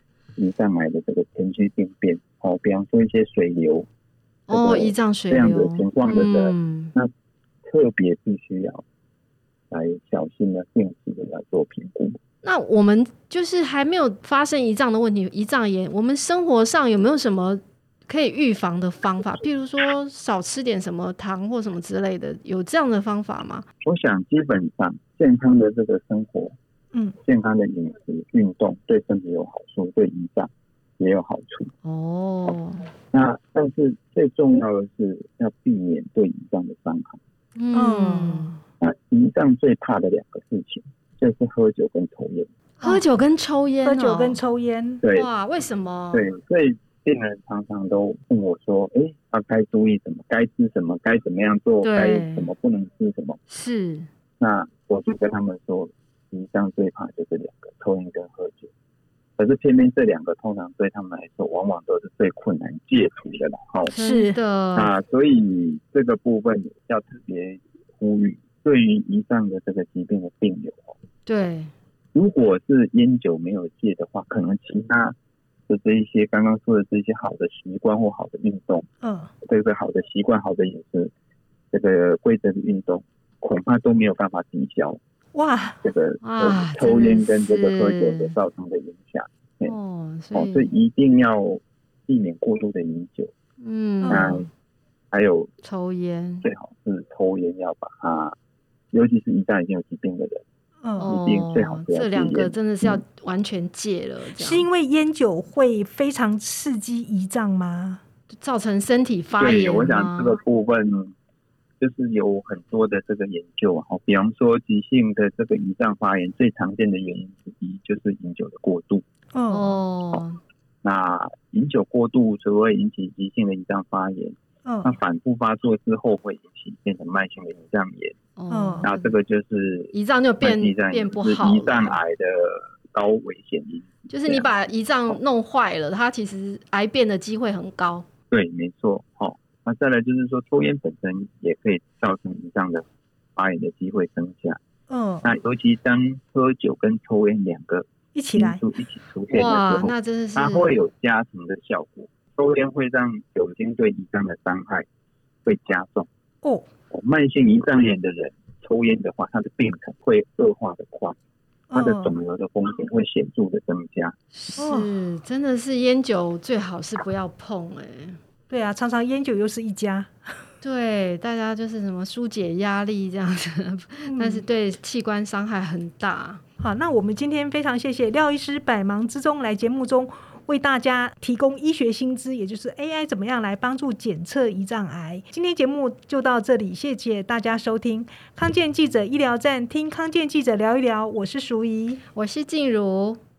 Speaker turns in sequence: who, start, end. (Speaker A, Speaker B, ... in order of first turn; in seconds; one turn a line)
Speaker A: 0.4-3.9
Speaker B: 4.5-6.9
Speaker A: 4.5-7.1
Speaker A: 7.6-8.8
Speaker A: 9.7-12.2
Speaker B: 12.4-23.6
Speaker A: 23.8-26.6
Speaker A: 27.2-31.7
Speaker B: 31.8-32.9
Speaker A: 33.1-37.2
Speaker B: 37.6-38.5
Speaker C: 37.7-38.6
Speaker A: 38.8-42.5
Speaker B: 42.8-44.4
Speaker C: 43.8-45.0
Speaker A: 45.0-45.3
Speaker B: 45.1-46.3
Speaker A: 46.1-53.4
Speaker B: 51.8-52.5
Speaker B: 53.5-54.1
Speaker A: 54.4-58.7
Speaker A: 59.4-63.9
Speaker B: 63.9-64.9
Speaker C: 63.9-64.4
Speaker A: 64.8-71.0
Speaker B: 71.3-71.7
Speaker A: 72.1-75.2
Speaker A: 75.7-78.9
Speaker C: 79.0-79.3
Speaker A: 79.4-81.1
Speaker A: 81.7-85.0
Speaker C: 85.3-85.8
Speaker A: 85.8-89.8
Speaker B: 86.2-88.3
Speaker B: 89.6-90.7
Speaker A: 90.3-93.3
Speaker B: 93.6-94.5
Speaker C: 94.0-94.4
Speaker A: 94.1-94.5
Speaker A: 95.1-95.5
Speaker B: 95.6-96.4
Speaker A: 96.4-98.4
Speaker A: 98.9-100.4
Speaker C: 100.8-101.1
Speaker B: 101.0-104.7
Speaker A: 101.0-103.0
Speaker C: 104.4-108.0
Speaker B: 108.4-110.4
Speaker A: 109.4-111.1
Speaker A: 111.8-119.0
Speaker C: 119.3-119.8
Speaker B: 119.5-120.4
Speaker A: 120.8-128.2
Speaker C: 124.6-125.0
Speaker B: 128.4-129.1
Speaker C: 128.5-128.9
Speaker A: 128.8-134.5
Speaker B: 129.9-132.0
Speaker B: 134.1-138.1
Speaker A: 138.3-144.6
Speaker C: 144.9-145.3
Speaker A: 145.2-154.9
Speaker C: 148.1-148.6
Speaker B: 149.3-150.7
Speaker A: 155.4-156.1
Speaker C: 156.4-156.7
Speaker A: 156.9-161.2
Speaker C: 161.7-162.1
Speaker A: 161.7-164.2
Speaker B: 164.3-168.2
Speaker C: 164.6-164.9
Speaker C: 168.5-170.1
Speaker B: 170.6-176.4
Speaker C: 174.1-174.4
Speaker C: 176.6-192.0
Speaker B: 192.1-193.2